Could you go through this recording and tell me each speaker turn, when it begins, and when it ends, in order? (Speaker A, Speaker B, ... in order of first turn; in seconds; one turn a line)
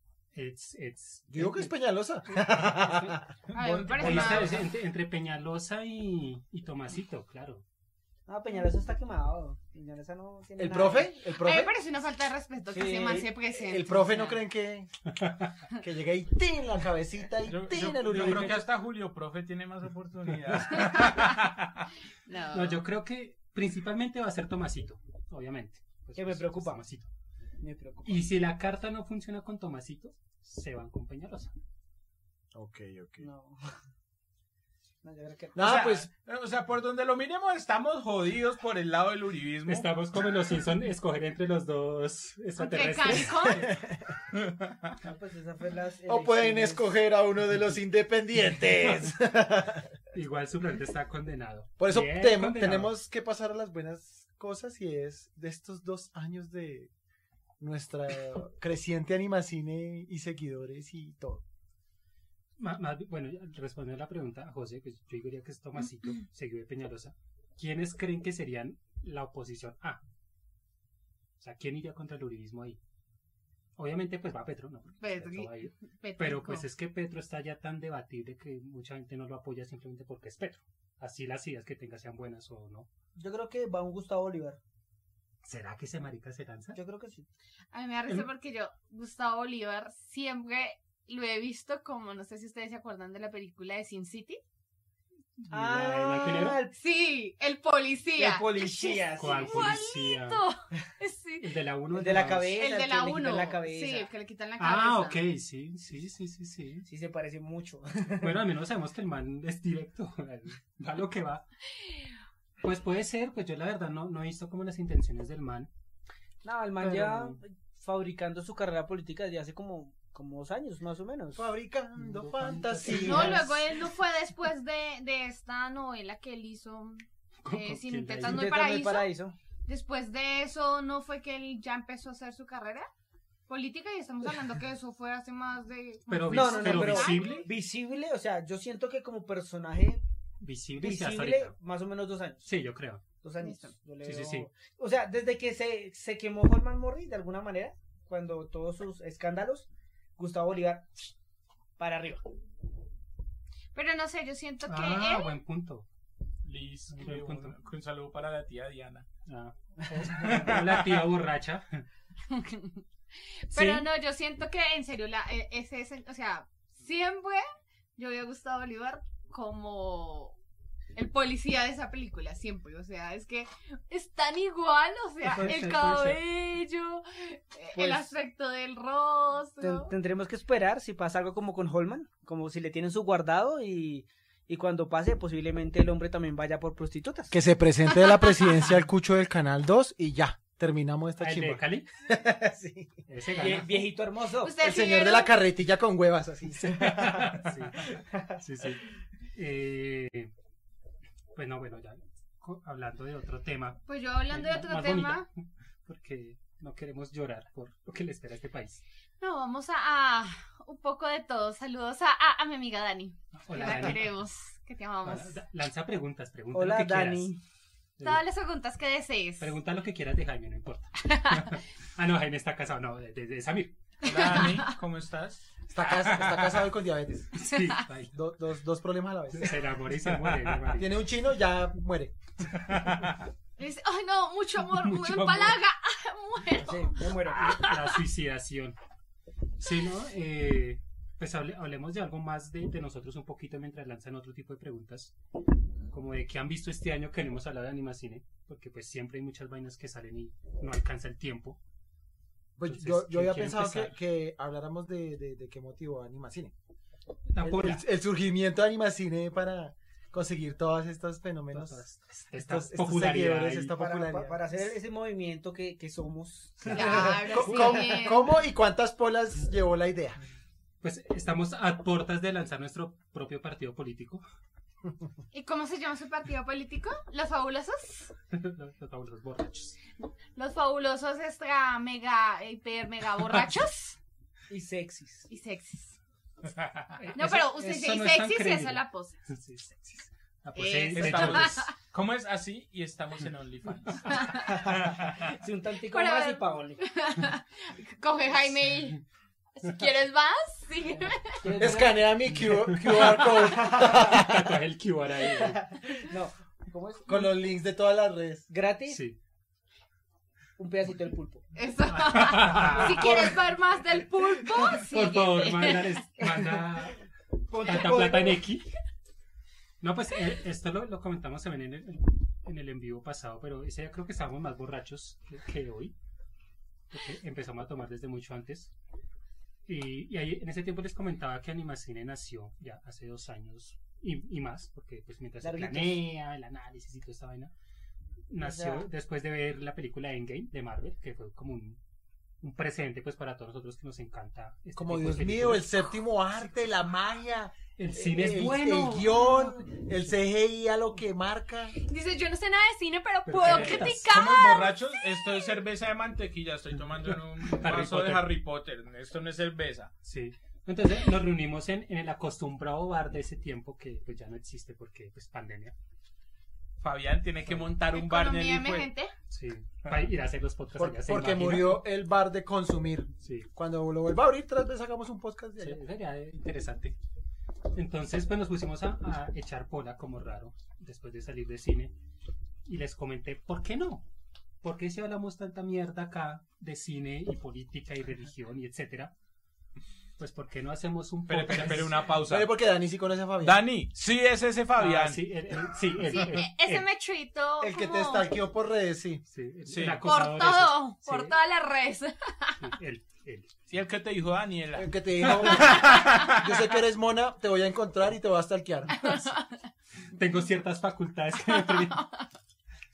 Speaker A: 0.3-1.7
Speaker B: 1.3-3.3
Speaker A: 2.2-3.2
Speaker C: 3.5-4.7
Speaker D: 3.5-4.6
Speaker A: 3.9-7.6
Speaker E: 8.3-11.1
Speaker B: 10.6-11.7
Speaker D: 11.3-14.4
Speaker E: 12.7-13.3
Speaker B: 13.5-14.9
Speaker A: 15.1-15.5
Speaker B: 15.7-18.7
Speaker C: 17.4-21.9
Speaker A: 18.1-18.6
Speaker D: 22.2-22.8
Speaker A: 22.5-27.1
Speaker E: 26.1-26.8
Speaker E: 27.6-28.2
Speaker A: 28.0-31.5
Speaker B: 32.5-33.3
Speaker E: 33.2-33.6
Speaker E: 35.0-35.9
Speaker B: 35.5-36.1
Speaker C: 35.6-39.9
Speaker A: 39.6-43.6
Speaker D: 42.6-43.7
Speaker B: 43.6-44.1
Speaker C: 44.3-45.0
Speaker E: 45.0-46.9
Speaker B: 46.0-49.9
Speaker A: 50.1-52.9
Speaker B: 51.8-56.9
Speaker B: 57.6-61.4
Speaker A: 62.6-70.0
Speaker A: 71.4-72.8
Speaker A: 73.8-82.9
Speaker D: 75.0-76.7
Speaker E: 83.2-84.6
Speaker A: 85.4-86.8
Speaker E: 86.7-87.3
Speaker D: 87.7-94.4
Speaker A: 95.4-96.6
Speaker E: 95.5-96.7
Speaker D: 96.7-101.5
Speaker E: 98.2-99.7
Speaker A: 99.2-100.4
Speaker A: 101.4-102.5
Speaker E: 101.9-104.1
Speaker D: 102.5-105.2
Speaker A: 104.6-106.9
Speaker E: 106.9-108.4
Speaker A: 108.2-111.5
Speaker A: 112.6-115.7
Speaker E: 116.4-121.5
Speaker A: 116.8-117.4
Speaker B: 121.3-123.5
Speaker A: 122.0-123.6
Speaker E: 122.9-123.4
Speaker D: 122.9-129.1
Speaker A: 127.4-128.5
Speaker E: 128.2-129.3
Speaker D: 129.7-132.9
Speaker D: 133.5-137.5
Speaker A: 136.1-137.4
Speaker E: 136.3-140.0
Speaker A: 140.4-141.5
Speaker E: 140.8-142.5
Speaker A: 142.4-143.0
Speaker E: 143.2-151.1
Speaker D: 143.4-143.7
Speaker A: 144.0-144.5
Speaker E: 151.8-152.2
Speaker D: 153.7-155.3
Speaker A: 154.7-155.8
Speaker C: 156.4-159.1
Speaker A: 156.9-157.6
Speaker A: 159.2-161.8
Speaker C: 160.1-161.1
Speaker D: 162.3-162.8
Speaker D: 163.5-167.4
Speaker A: 163.5-163.8
Speaker D: 167.9-170.3
Speaker D: 170.9-179.9
Speaker A: 175.2-176.2
Speaker E: 177.7-178.1
Speaker E: 179.6-187.4
Speaker B: 187.3-193.0
Speaker D: 188.0-188.5
Speaker A: 191.2-191.9
Speaker A: 193.1-193.9
Speaker E: 193.4-194.6
Speaker D: 194.4-195.3
Speaker B: 194.6-197.3
Speaker A: 196.6-200.3
Speaker A: 201.3-208.8
Speaker D: 203.9-205.2
Speaker D: 209.2-215.3
Speaker A: 213.3-214.1
Speaker A: 215.0-217.3
Speaker E: 216.5-217.4
Speaker A: 218.0-218.2
Speaker D: 218.0-219.5
Speaker A: 219.4-223.8
Speaker D: 221.0-221.6
Speaker D: 224.0-224.7
Speaker C: 224.0-225.4
Speaker B: 225.7-227.3
Speaker C: 226.0-226.6
Speaker A: 227.3-228.1
Speaker B: 228.1-229.7
Speaker A: 229.3-231.0
Speaker B: 230.7-232.2
Speaker C: 232.6-233.2
Speaker D: 233.6-238.0
Speaker A: 234.7-235.6
Speaker E: 236.6-237.6
Speaker A: 237.3-238.8
Speaker A: 239.6-245.1
Speaker A: 245.9-251.6
Speaker B: 252.6-256.5
Speaker A: 252.7-253.9
Speaker A: 257.3-257.8
Speaker B: 257.4-264.4
Speaker A: 261.5-263.8
Speaker E: 263.7-268.0
Speaker A: 266.7-267.0
Speaker D: 266.7-268.2
Speaker B: 266.9-270.2
Speaker A: 270.8-274.2
Speaker D: 275.3-278.1
Speaker A: 278.3-279.8
Speaker D: 280.3-284.0
Speaker E: 284.5-285.3
Speaker D: 285.3-286.0
Speaker C: 286.4-287.0
Speaker A: 287.0-291.7
Speaker D: 287.1-289.2
Speaker D: 290.5-291.7
Speaker C: 290.9-295.3
Speaker D: 294.1-294.6
Speaker E: 294.4-296.8
Speaker D: 295.8-299.0
Speaker D: 299.6-301.4
Speaker E: 300.9-302.1
Speaker B: 301.5-304.6
Speaker A: 302.3-305.6
Speaker E: 302.9-304.1
Speaker E: 305.3-307.4
Speaker B: 307.1-308.5
Speaker E: 308.5-309.0
Speaker A: 308.9-309.2
Speaker E: 310.6-311.4
Speaker D: 311.5-316.0
Speaker A: 311.9-313.4
Speaker E: 313.0-313.3
Speaker A: 314.7-317.0
Speaker E: 317.5-318.4
Speaker A: 317.6-318.7
Speaker A: 319.8-325.9
Speaker A: 326.9-328.7
Speaker A: 329.6-337.5
Speaker E: 335.4-336.0
Speaker A: 338.3-341.8
Speaker E: 338.4-338.9
Speaker A: 342.4-345.9
Speaker B: 344.8-351.8
Speaker A: 347.8-349.5
Speaker D: 351.8-355.0
Speaker A: 353.2-354.1
Speaker C: 353.4-359.9
Speaker A: 357.4-358.4
Speaker A: 360.0-365.7
Speaker C: 366.8-368.9
Speaker A: 367.4-367.7
Speaker D: 367.9-369.1
Speaker A: 369.3-371.8
Speaker B: 370.8-375.8
Speaker A: 373.2-373.5
Speaker A: 375.6-377.0
Speaker A: 377.7-381.9
Speaker A: 382.6-384.1
Speaker A: 384.6-389.1
Speaker A: 390.2-392.0
Speaker C: 391.3-392.5
Speaker B: 392.2-393.6
Speaker C: 393.4-395.2
Speaker A: 394.8-396.9
Speaker D: 396.0-398.3
Speaker B: 397.6-399.2
Speaker A: 399.3-401.4
Speaker C: 399.7-400.1
Speaker D: 400.0-402.6
Speaker A: 402.6-403.5
Speaker C: 403.7-406.5
Speaker B: 404.8-409.0
Speaker D: 405.8-406.1
Speaker D: 408.9-409.6
Speaker A: 410.1-412.1
Speaker D: 411.4-412.2